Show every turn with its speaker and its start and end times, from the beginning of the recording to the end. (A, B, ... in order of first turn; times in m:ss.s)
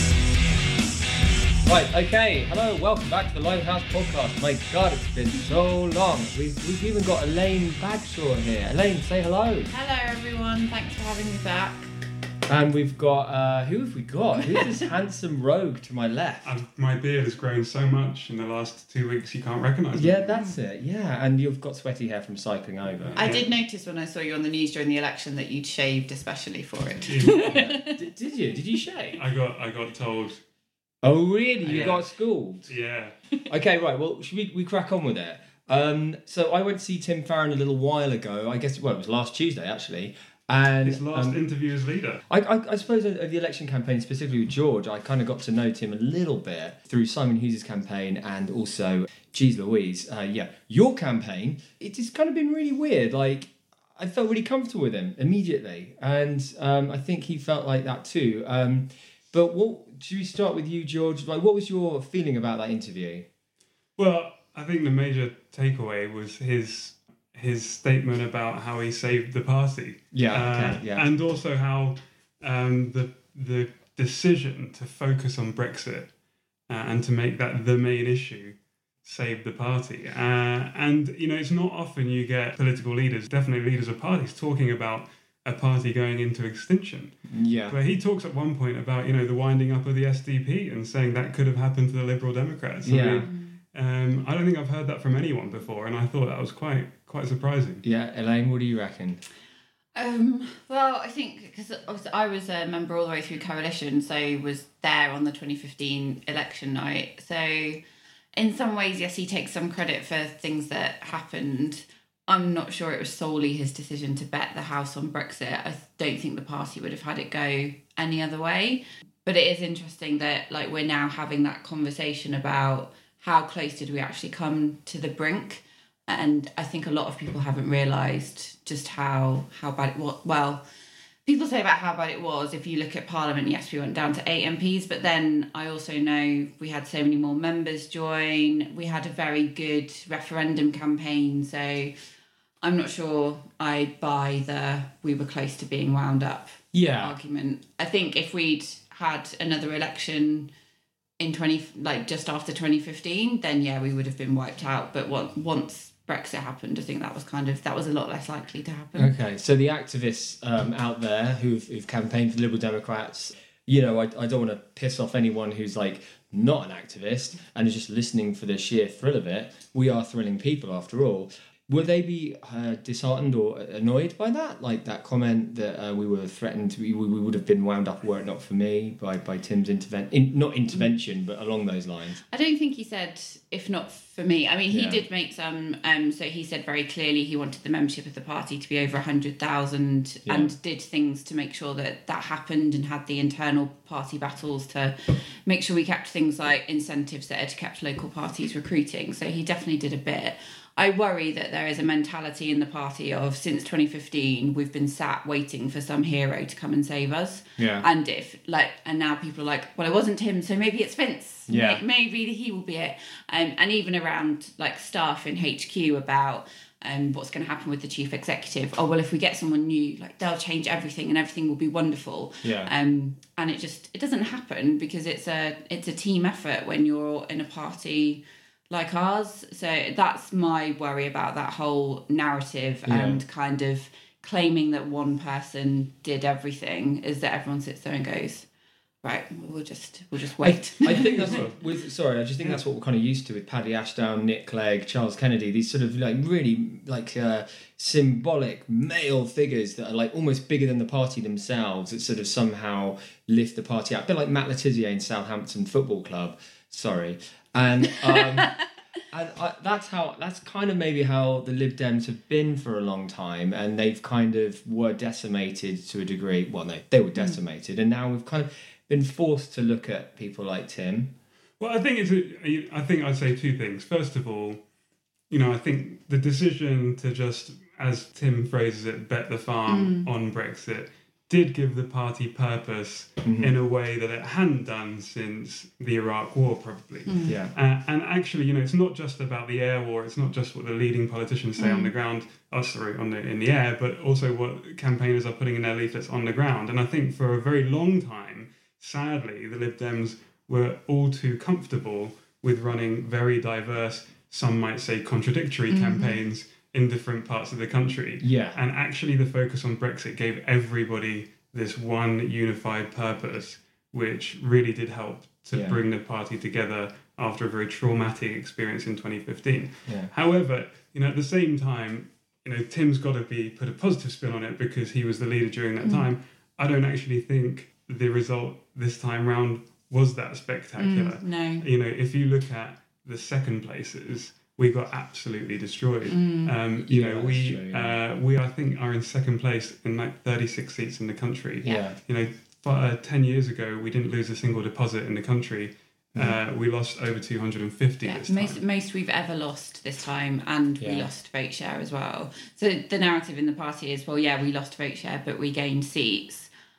0:01.6-0:09.7 A
0:09.7-0:11.9 B
0:12.5-0:16.5 A
0:16.4-0:20.4 C
0:19.9-0:23.3 A
0:23.0-0:23.5 C
0:23.2-0:28.0 B
0:27.1-0:27.7 C
0:27.4-0:29.2 A
0:29.1-0:30.4 C
0:31.0-0:32.8 A
0:31.6-0:32.1 C
0:32.7-0:33.2 C
0:33.5-0:41.4 A
0:40.8-0:42.2 C
0:42.3-1:03.3 A
1:04.0-1:16.1 C
1:10.1-1:11.1 A
1:16.7-1:27.1 C
1:27.3-1:27.8 A
1:27.7-1:37.8 C
1:32.8-1:33.3 A
1:33.2-1:33.6 B
1:37.8-1:39.2 A
1:40.0-1:47.8 B
1:48.4-2:10.6 B
2:11.3-2:21.9 B
2:22.6-2:30.5 B
2:26.7-2:27.2 A
2:31.2-2:39.1 B
2:39.0-3:02.2 A
3:02.3-3:58.5 B
3:04.7-3:05.0 A
3:10.3-3:10.5 A
3:27.6-3:27.9 A
3:31.5-3:31.8 A
3:42.4-3:42.7 A
3:52.9-3:53.2 A
3:59.0-4:01.4 B
4:00.4-4:18.5 A
4:01.0-4:01.6 C
4:19.1-4:31.1 A
4:31.6-4:34.6 C
4:35.3-5:48.6 C
4:39.7-4:40.1 B
4:43.2-4:43.6 A
4:47.1-4:47.4 B
4:47.3-4:47.5 A
4:51.6-4:51.9 B
5:05.7-5:06.2 B
5:08.2-5:08.6 A
5:15.5-5:15.8 A
5:19.9-5:20.1 A
5:25.8-5:26.1 B
5:30.8-5:31.6 B
5:36.1-5:36.6 B
5:36.9-5:38.0 A
5:41.6-5:42.0 B
5:41.6-5:42.0 A
5:48.0-5:56.5 B
5:50.8-5:51.1 A